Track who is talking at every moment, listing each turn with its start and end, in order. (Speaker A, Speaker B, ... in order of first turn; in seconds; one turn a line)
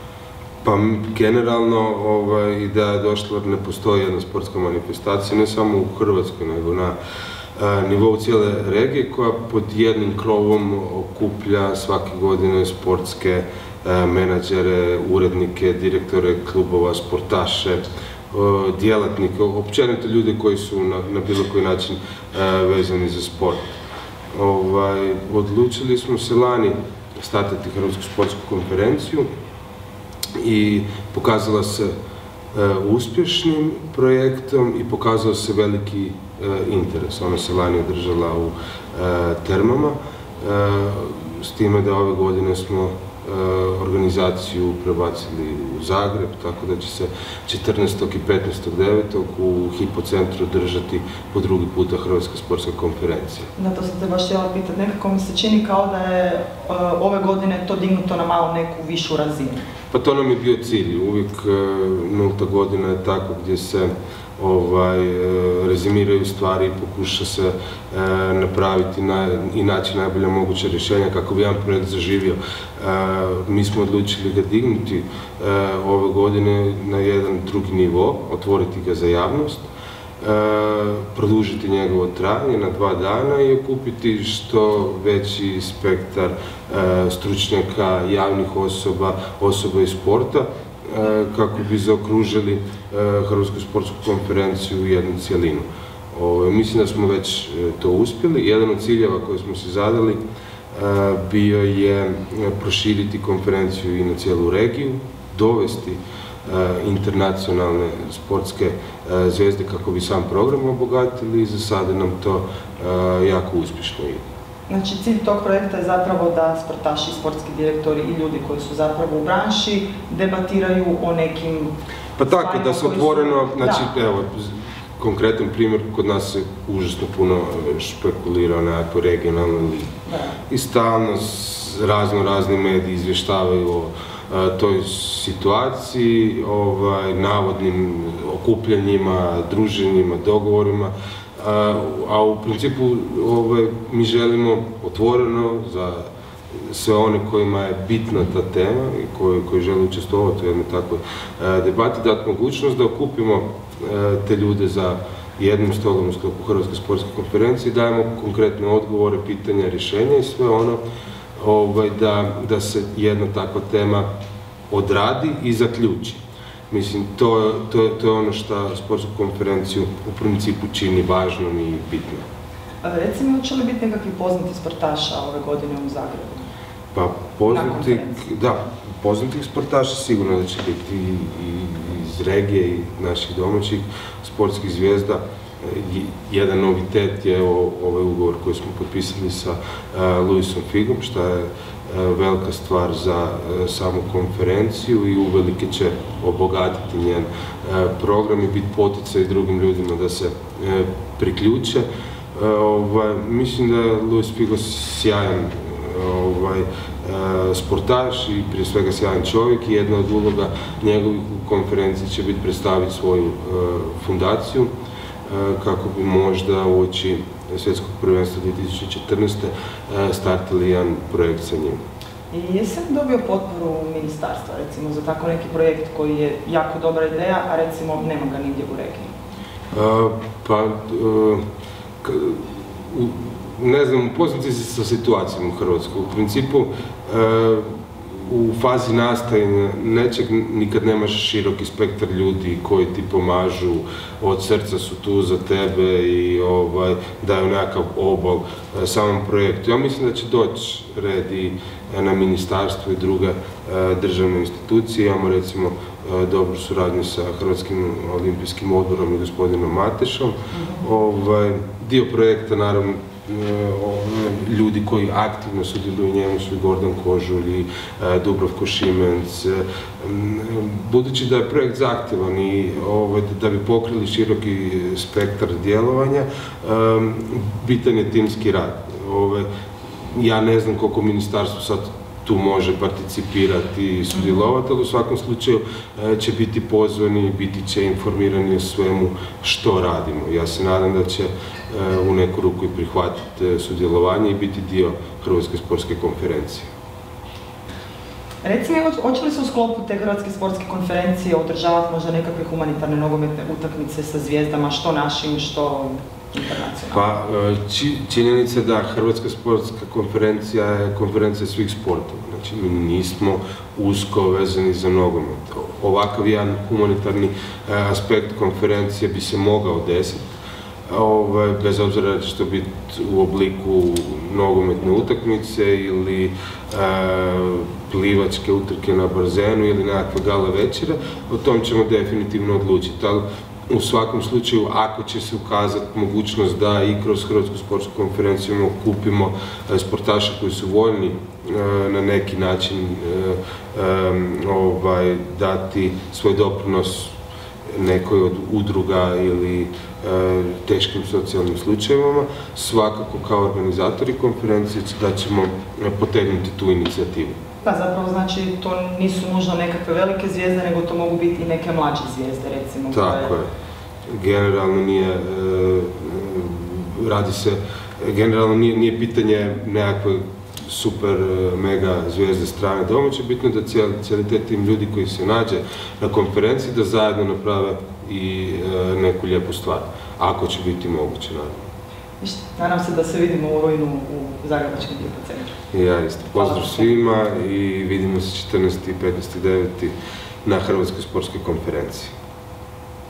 Speaker A: 0.6-6.9
Speaker A: 7.5-23.6
Speaker A: 24.3-29.3
Speaker A: 30.4-31.9
Speaker A: 32.5-53.5
Speaker B: 53.5-59.6
Speaker A: 59.9-79.7
Speaker A: 80.2-100.2
Speaker A: 100.7-114.2
Speaker B: 114.7-123.9
Speaker A: 122.2-129.9
Speaker B: 130.0-130.4
Speaker A: 130.5-146.1
Speaker A: 146.6-160.8
Speaker A: 161.4-164.1
Speaker A: 164.7-172.2
Speaker B: 172.8-176.5
Speaker A: 176.9-214.7
Speaker B: 177.5-178.2
Speaker A: 215.2-221.8
Speaker B: 222.3-229.1
Speaker A: 229.7-231.4
Speaker A: 232.0-279.5
Speaker B: 260.5-260.8
Speaker A: 280.1-296.7
Speaker B: 298.4-307.0
Speaker A: 306.9-320.2
Speaker A: 320.9-347.1
Speaker A: 347.8-357.4
Speaker B: 357.6-363.3
Speaker A: 362.9-363.5
Speaker A: 364.1-381.6
Speaker B: 382.2-385.5
Speaker A: 385.7-392.1
Speaker B: 386.4-386.9